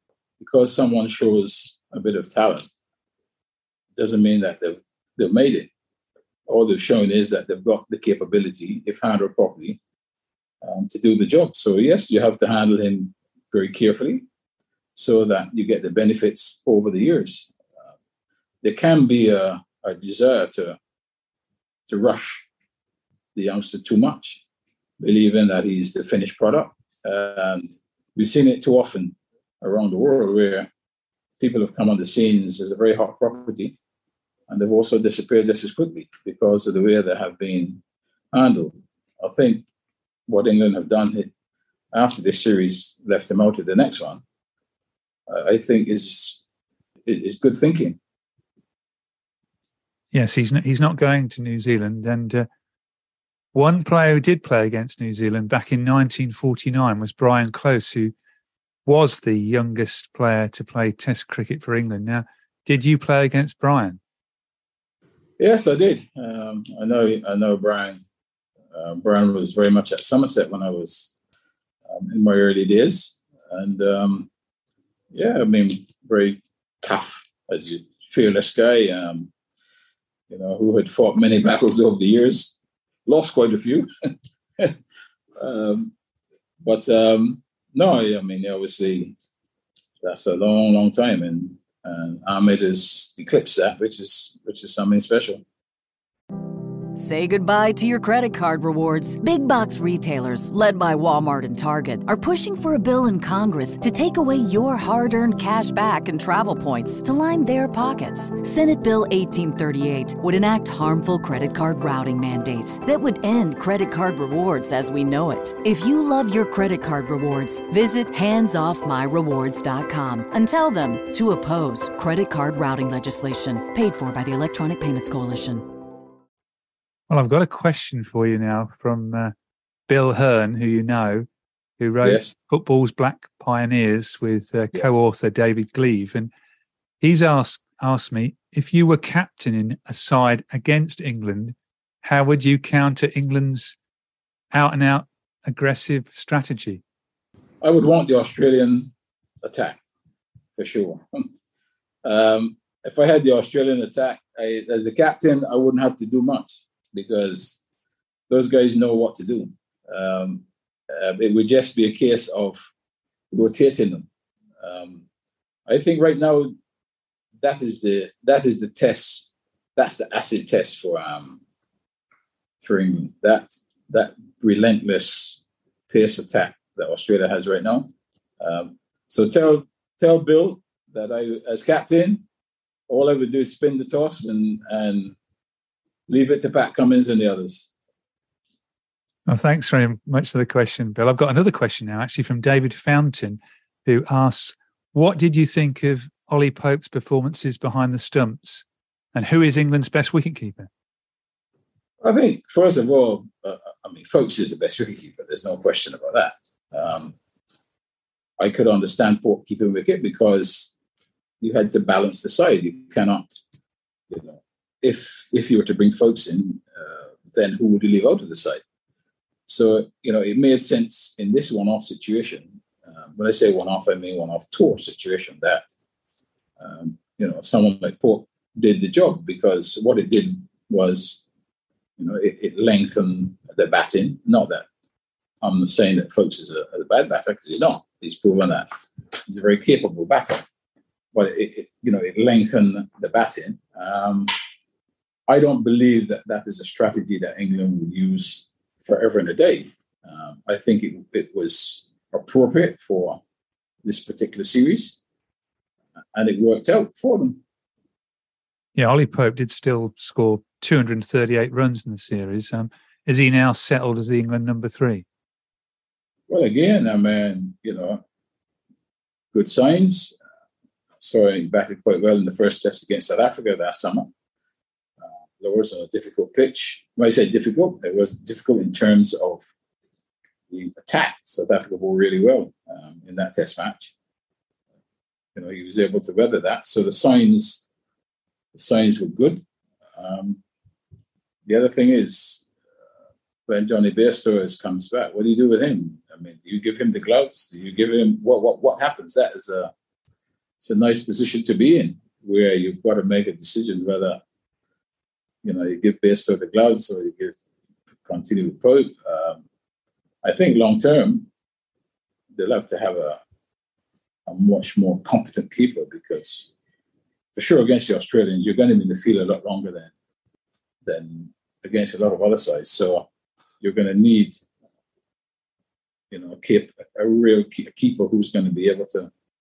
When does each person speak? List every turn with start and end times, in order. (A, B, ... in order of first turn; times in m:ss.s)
0:00.4-0:02.7 A
0:04.0-0:05.7 A
0:06.5-0:09.8 A
0:10.6-0:14.2 A
0:14.9-0:17.5 A
0:18.6-0:20.8 A
0:21.9-0:22.4 A
0:23.3-0:24.4 A
0:25.0-0:30.7 A
0:31.4-0:33.8 A
0:34.5-0:37.8 A
0:38.3-0:39.6 A
0:40.3-0:41.3 A
0:41.9-0:44.2 A
0:45.3-0:46.4 A
0:47.0-0:48.0 A
0:50.1-0:52.5 B
0:53.5-0:58.1 B
0:58.8-1:04.0 B
1:05.4-1:08.0 A
1:08.7-1:11.1 A
1:11.9-1:14.3 A
1:15.1-1:19.3 A
1:20.3-1:22.5 A
1:23.0-1:23.9 A
1:25.4-1:25.9 A
1:26.6-1:29.2 A
1:30.0-1:35.4 A
1:36.9-2:05.7 C
2:07.1-2:09.3 B
2:09.9-2:11.3 B
2:11.8-2:16.3 B
2:12.0-2:12.3 A
2:17.0-2:23.8 B
2:24.5-2:26.8 B
2:27.6-2:29.8 A
2:30.5-2:31.3 A
2:32.0-2:37.6 A
2:38.3-2:42.7 A
2:43.3-2:44.1 A
2:44.6-2:45.0 A
2:45.7-2:46.5 A
2:47.4-2:51.4 A
2:52.6-3:02.2 A
3:02.9-3:05.2 A
3:06.1-3:07.7 A
3:09.3-3:20.7 B
3:22.0-3:27.1 A
3:28.4-3:30.7 A
3:31.4-3:33.4 A
3:34.1-3:38.6 A
3:39.5-3:45.7 A
3:46.6-3:51.2 A
3:52.0-3:54.6 A
3:55.4-4:00.4 A
4:01.1-4:04.3 A
4:05.3-4:13.2 A
4:13.8-4:15.0 A
4:16.1-4:17.4 A
4:18.8-4:25.0 B
4:26.3-4:28.0 A
4:29.3-4:30.2 A
4:31.0-4:34.1 A
4:35.4-4:39.4 A
4:40.5-4:43.9 A
4:45.3-4:47.6 A
4:48.5-4:49.4 A
4:49.9-4:50.4 A
4:51.4-4:52.4 A
4:53.5-4:59.7 A
5:00.6-5:04.2 A
5:05.4-5:07.4 A
5:08.0-5:09.4 A
5:10.2-5:11.3 A
5:12.3-5:13.2 A
5:14.3-5:16.5 A
5:17.3-5:19.9 A
5:20.8-5:23.1 A
5:23.6-5:24.4 A
5:26.1-5:29.1 A